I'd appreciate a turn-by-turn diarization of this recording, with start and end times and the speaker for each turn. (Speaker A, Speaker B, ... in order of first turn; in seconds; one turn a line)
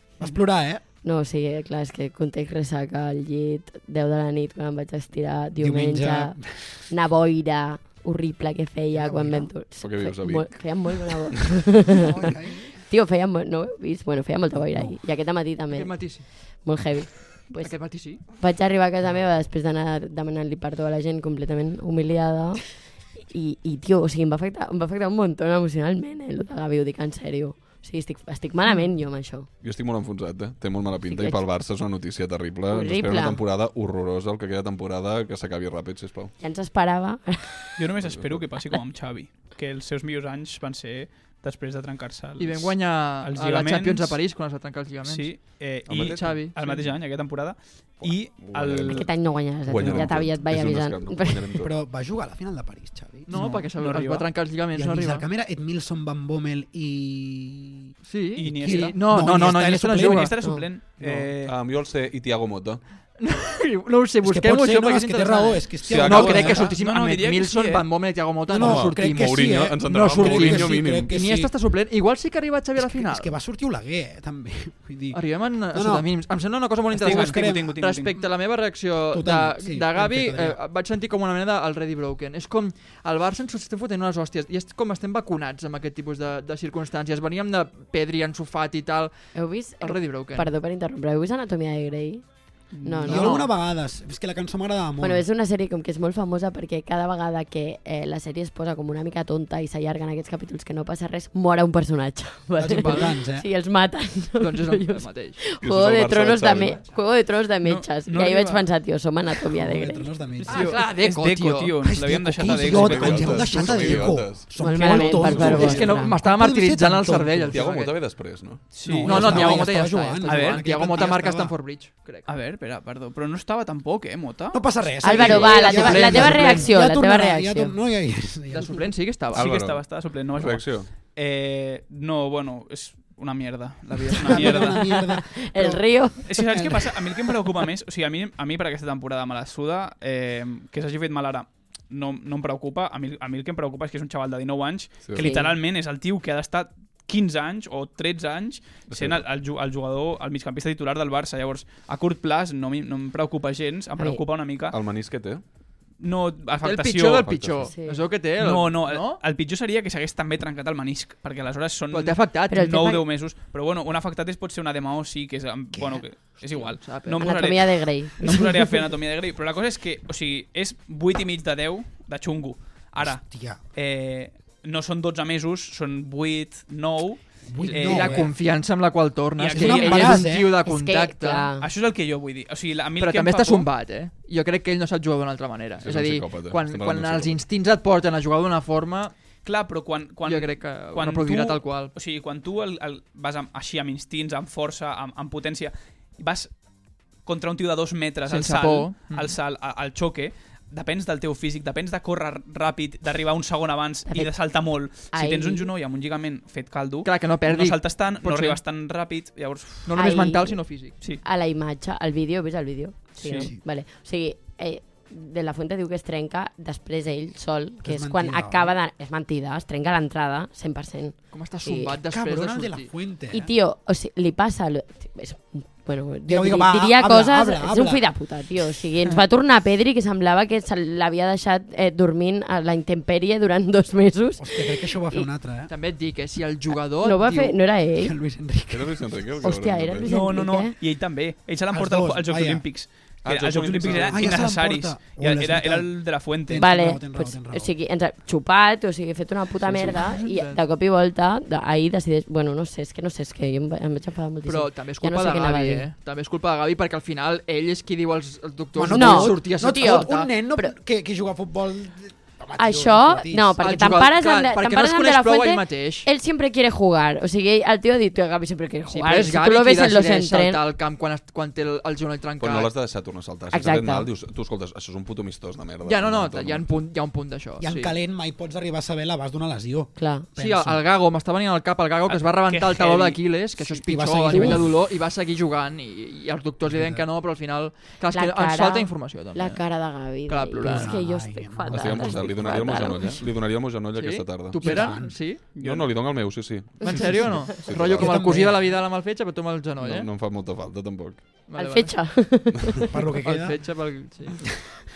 Speaker A: 0.2-0.8
Speaker B: 1.0-12.1
Speaker A: 5.6-6.8
Speaker A: 8.9-9.5
Speaker C: 9.8-11.1
Speaker A: 12.1-12.7
Speaker B: 12.8-29.5
Speaker D: 15.7-16.3
Speaker D: 17.6-18.3
Speaker C: 29.6-36.3
Speaker B: 31.1-31.4
Speaker B: 32.7-33.4
Speaker B: 36.4-37.8
Speaker E: 37.8-44.2
Speaker C: 38.0-38.5
Speaker D: 42.4-45.4
Speaker E: 45.0-49.1
Speaker C: 45.9-46.4
Speaker D: 45.9-46.8
Speaker C: 48.0-51.7
Speaker B: 48.9-51.6
Speaker A: 51.6-53.3
Speaker D: 53.3-55.2
Speaker E: 53.3-54.3
Speaker A: 54.7-57.9
Speaker D: 58.0-60.3
Speaker E: 58.4-59.0
Speaker A: 58.5-60.3
Speaker E: 60.0-61.5
Speaker C: 61.0-62.8
Speaker D: 63.2-73.3
Speaker A: 64.2-66.7
Speaker C: 65.8-66.6
Speaker E: 66.5-67.8
Speaker A: 68.5-71.5
Speaker C: 68.5-71.1
Speaker A: 72.8-76.1
Speaker D: 75.1-89.1
Speaker A: 76.9-77.7
Speaker E: 77.0-78.2
Speaker A: 79.1-80.6
Speaker B: 89.3-92.2
Speaker D: 89.8-90.5
Speaker E: 92.7-93.2
Speaker B: 92.8-93.4
Speaker D: 93.0-93.5
Speaker A: 93.0-95.2
Speaker B: 95.0-110.6
Speaker A: 102.6-103.4
Speaker D: 102.7-103.1
Speaker D: 104.4-105.4
Speaker C: 105.5-106.8
Speaker E: 107.6-108.6
Speaker A: 109.5-110.8
Speaker D: 110.5-111.9
Speaker E: 110.5-113.5
Speaker A: 111.8-117.7
Speaker C: 112.4-114.5
Speaker D: 112.9-114.3
Speaker B: 114.5-116.2
Speaker D: 114.9-118.0
Speaker C: 115.1-115.9
Speaker C: 117.5-118.6
Speaker E: 118.7-119.7
Speaker A: 118.8-121.5
Speaker D: 119.0-122.3
Speaker E: 120.2-120.6
Speaker E: 122.3-124.6
Speaker A: 124.5-128.9
Speaker B: 125.0-127.8
Speaker C: 125.2-125.4
Speaker D: 125.2-126.7
Speaker D: 128.5-129.5
Speaker C: 129.3-130.9
Speaker E: 129.3-134.8
Speaker B: 134.1-136.3
Speaker A: 134.2-136.8
Speaker E: 136.2-154.8
Speaker B: 145.2-145.5
Speaker C: 148.9-149.2
Speaker C: 154.7-155.4
Speaker E: 156.0-157.4
Speaker D: 156.6-159.2
Speaker C: 157.2-157.7
Speaker B: 157.7-158.1
Speaker E: 158.4-178.3
Speaker D: 161.9-162.7
Speaker B: 162.5-163.0
Speaker D: 166.4-167.4
Speaker B: 167.2-168.8
Speaker A: 173.0-173.6
Speaker A: 177.5-178.3
Speaker D: 177.6-181.5
Speaker E: 179.4-180.3
Speaker A: 179.5-180.5
Speaker B: 180.6-181.7
Speaker E: 181.6-183.7
Speaker D: 183.0-189.1
Speaker C: 185.8-187.4
Speaker E: 189.4-196.5
Speaker D: 190.2-191.9
Speaker E: 197.2-209.9
Speaker D: 198.2-199.4
Speaker B: 205.1-205.7
Speaker D: 207.0-208.6
Speaker D: 209.8-211.1
Speaker B: 210.0-210.6
Speaker B: 211.2-222.0
Speaker E: 213.2-213.5
Speaker A: 217.8-218.7
Speaker D: 221.3-222.9
Speaker A: 222.1-223.5
Speaker B: 223.3-235.3
Speaker A: 226.3-228.0
Speaker A: 234.4-235.7
Speaker D: 235.7-237.6
Speaker B: 237.0-238.1
Speaker A: 238.0-239.1
Speaker C: 238.7-240.1
Speaker B: 239.4-240.7
Speaker E: 240.1-246.7
Speaker A: 241.7-242.6
Speaker C: 243.2-244.5
Speaker A: 244.0-247.7
Speaker B: 246.6-255.9
Speaker D: 249.7-250.6
Speaker D: 254.4-260.3
Speaker A: 258.7-263.5
Speaker B: 258.9-260.7
Speaker B: 262.6-270.6
Speaker D: 263.6-266.1
Speaker D: 268.9-272.7
Speaker C: 272.4-276.6
Speaker B: 273.5-274.1
Speaker D: 275.8-277.9
Speaker A: 277.6-280.8
Speaker B: 280.0-280.3
Speaker D: 280.4-289.6
Speaker E: 282.1-283.2
Speaker A: 283.6-284.7
Speaker B: 284.3-284.6
Speaker A: 286.6-287.1
Speaker B: 288.1-293.2
Speaker D: 290.3-290.9
Speaker A: 290.6-292.6
Speaker C: 291.7-294.9
Speaker D: 293.9-295.5
Speaker A: 294.6-295.2
Speaker C: 295.4-298.3
Speaker E: 295.5-296.3
Speaker D: 296.8-300.1
Speaker A: 297.9-298.7
Speaker C: 299.8-301.4
Speaker D: 301.5-302.2
Speaker B: 301.6-302.9
Speaker A: 302.9-303.6
Speaker D: 303.2-304.5